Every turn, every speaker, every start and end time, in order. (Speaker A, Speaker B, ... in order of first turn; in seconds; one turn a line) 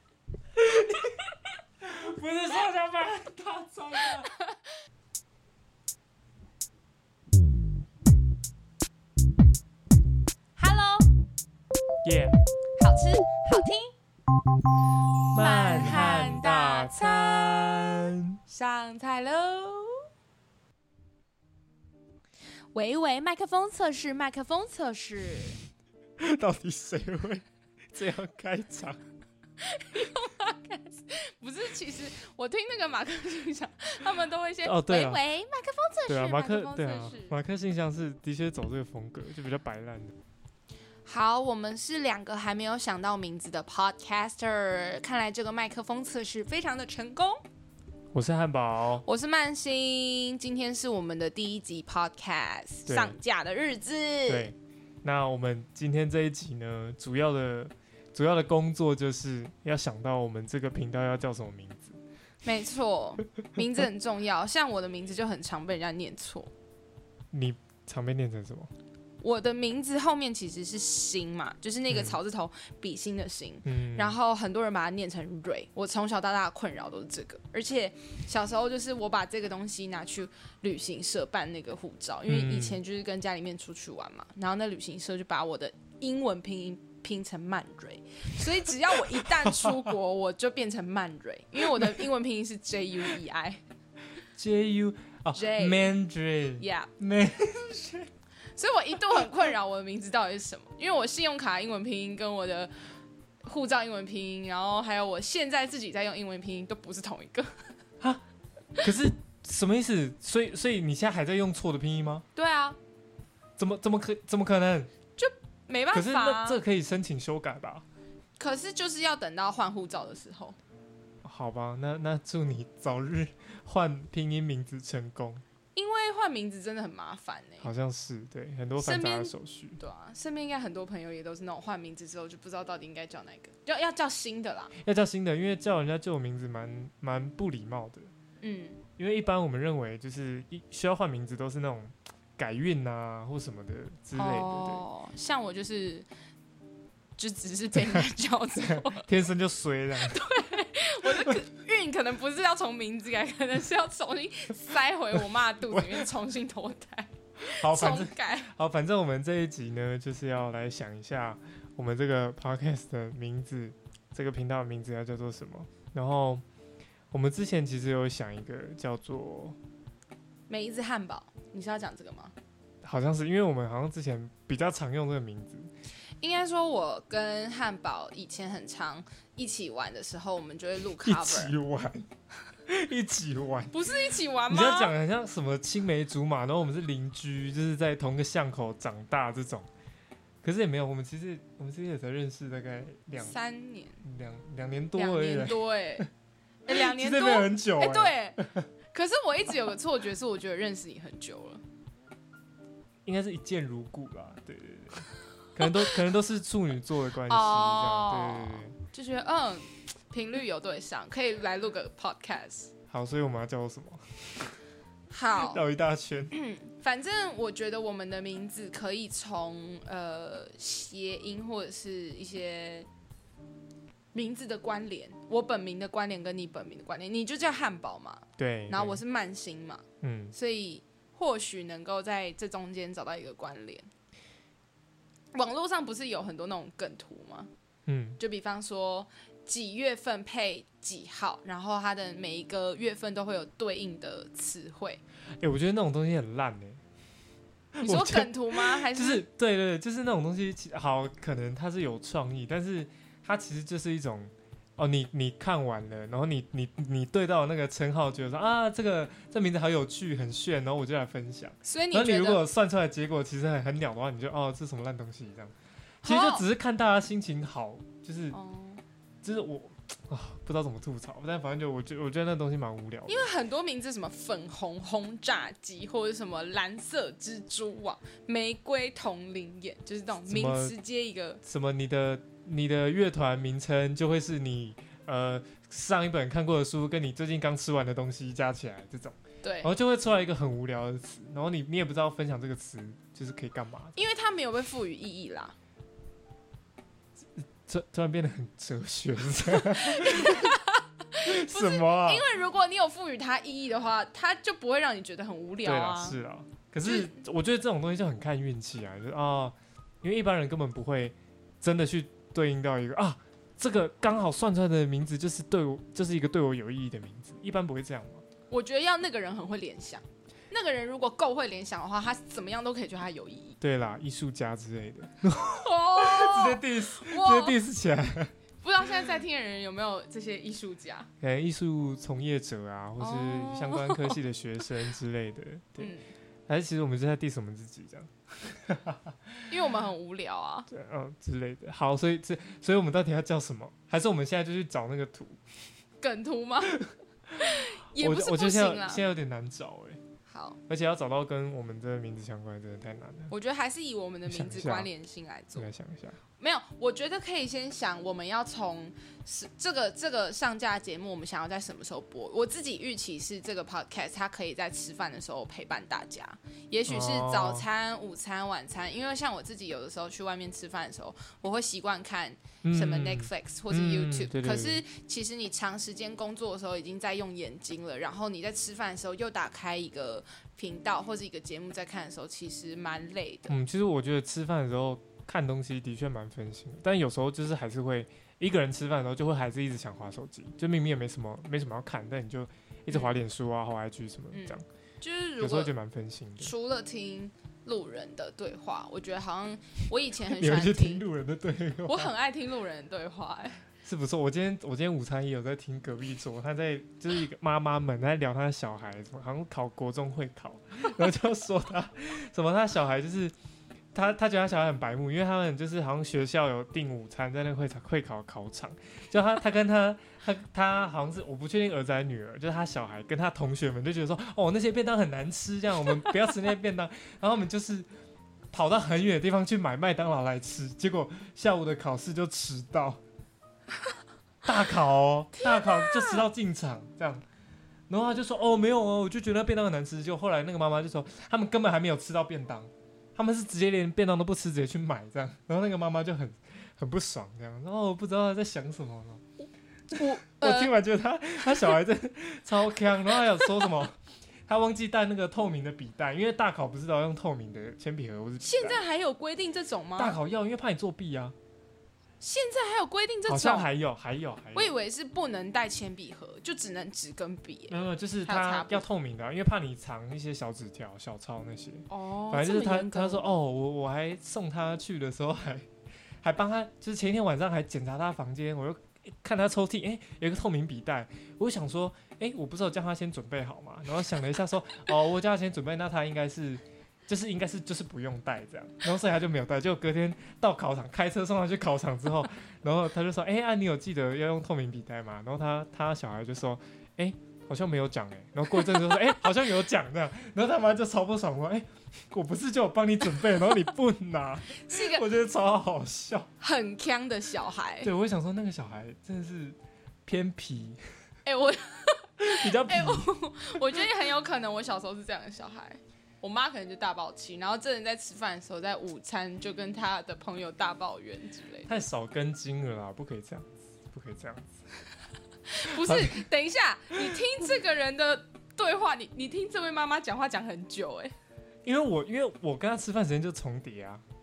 Speaker A: 0.6-1.3
Speaker A: 1.8-4.3
Speaker B: 4.2-4.7
Speaker B: 10.6-11.1
Speaker A: 12.0-12.3
Speaker B: 12.8-13.9
Speaker A: 15.3-18.4
Speaker B: 15.4-17.9
Speaker B: 18.5-20.0
Speaker B: 22.7-25.6
Speaker A: 26.2-29.0
Speaker B: 29.6-37.4
Speaker A: 34.6-35.2
Speaker A: 36.1-40.1
Speaker B: 41.0-47.4
Speaker A: 48.1-49.0
Speaker B: 49.0-54.5
Speaker A: 52.9-53.1
Speaker A: 54.3-62.0
Speaker B: 62.4-66.5
Speaker A: 67.3-68.7
Speaker B: 69.2-93.6
Speaker A: 71.9-72.2
Speaker A: 73.6-74.2
Speaker A: 82.3-82.8
Speaker A: 89.1-89.8
Speaker A: 94.3-98.1
Speaker B: 95.3-95.9
Speaker B: 96.6-96.9
Speaker B: 98.5-102.7
Speaker B: 103.4-107.6
Speaker A: 108.8-112.2
Speaker B: 112.3-112.8
Speaker A: 113.6-114.9
Speaker B: 115.2-116.6
Speaker A: 115.9-117.8
Speaker B: 118.4-120.6
Speaker A: 121.2-125.4
Speaker B: 125.7-127.7
Speaker A: 127.6-129.8
Speaker B: 128.8-134.7
Speaker A: 134.8-138.1
Speaker B: 138.4-138.8
Speaker A: 139.0-144.8
Speaker B: 144.1-146.1
Speaker B: 147.2-149.1
Speaker A: 148.6-150.2
Speaker B: 149.9-158.5
Speaker A: 151.1-151.4
Speaker A: 155.7-156.0
Speaker A: 157.4-166.4
Speaker A: 167.1-169.6
Speaker B: 170.5-172.3
Speaker A: 172.8-175.7
Speaker B: 176.2-181.5
Speaker A: 181.0-182.1
Speaker A: 182.7-183.7
Speaker B: 183.7-184.9
Speaker A: 184.5-189.7
Speaker A: 190.4-193.3
Speaker B: 193.2-194.0
Speaker A: 194.0-196.1
Speaker B: 194.9-196.1
Speaker B: 196.6-198.4
Speaker A: 196.7-198.7
Speaker B: 198.9-201.6
Speaker A: 203.1-208.7
Speaker B: 207.3-212.7
Speaker A: 212.9-214.4
Speaker B: 215.1-215.6
Speaker A: 215.3-216.4
Speaker B: 216.3-222.9
Speaker B: 224.1-233.9
Speaker A: 228.4-229.0
Speaker A: 230.0-230.3
Speaker B: 235.3-237.5
Speaker A: 237.8-238.2
Speaker B: 238.2-245.0
Speaker A: 245.4-246.8
Speaker A: 247.7-268.4
Speaker B: 247.8-249.2
Speaker B: 261.6-262.4
Speaker B: 266.0-266.4
Speaker B: 268.3-268.8
Speaker A: 269.2-273.3
Speaker B: 273.1-281.4
Speaker A: 280.3-280.7
Speaker A: 281.4-293.9
Speaker B: 289.4-289.7
Speaker B: 293.9-295.6
Speaker A: 297.6-300.6
Speaker B: 299.5-306.2
Speaker A: 301.2-302.2
Speaker A: 305.6-318.2
Speaker B: 306.8-307.1
Speaker B: 318.5-323.6
Speaker A: 323.6-328.3
Speaker B: 325.4-327.6
Speaker B: 328.6-331.1
Speaker A: 331.2-335.9
Speaker B: 333.0-334.2
Speaker B: 335.8-336.1
Speaker A: 336.5-339.5
Speaker B: 339.5-340.7
Speaker A: 340.7-345.4
Speaker B: 346.0-346.8
Speaker A: 346.7-350.0
Speaker B: 347.4-349.0
Speaker B: 350.3-350.6
Speaker A: 350.7-353.3
Speaker B: 353.3-355.7
Speaker A: 354.3-354.9
Speaker A: 355.5-356.2
Speaker B: 356.4-383.5
Speaker A: 366.9-367.6
Speaker A: 372.6-374.8
Speaker A: 383.5-394.6
Speaker B: 392.9-393.2
Speaker B: 394.3-395.7
Speaker A: 395.4-396.5
Speaker B: 396.4-401.0
Speaker A: 400.3-402.1
Speaker B: 401.8-403.6
Speaker A: 403.8-413.3
Speaker A: 413.9-427.9
Speaker A: 428.5-433.0
Speaker A: 434.4-437.2
Speaker B: 435.4-436.3
Speaker A: 437.9-449.2
Speaker B: 449.9-450.7
Speaker A: 449.9-458.8
Speaker B: 453.3-453.7
Speaker B: 458.4-460.2
Speaker A: 460.0-461.3
Speaker B: 462.2-463.7
Speaker A: 463.3-464.7
Speaker B: 464.5-468.8
Speaker A: 467.7-475.7
Speaker B: 471.9-473.2
Speaker A: 476.2-506.3
Speaker B: 504.6-505.0
Speaker B: 506.4-507.9
Speaker A: 507.8-510.8
Speaker B: 511.2-521.7
Speaker A: 512.2-513.1
Speaker A: 521.6-524.6
Speaker B: 525.5-531.1
Speaker A: 525.6-526.3
Speaker A: 531.6-534.0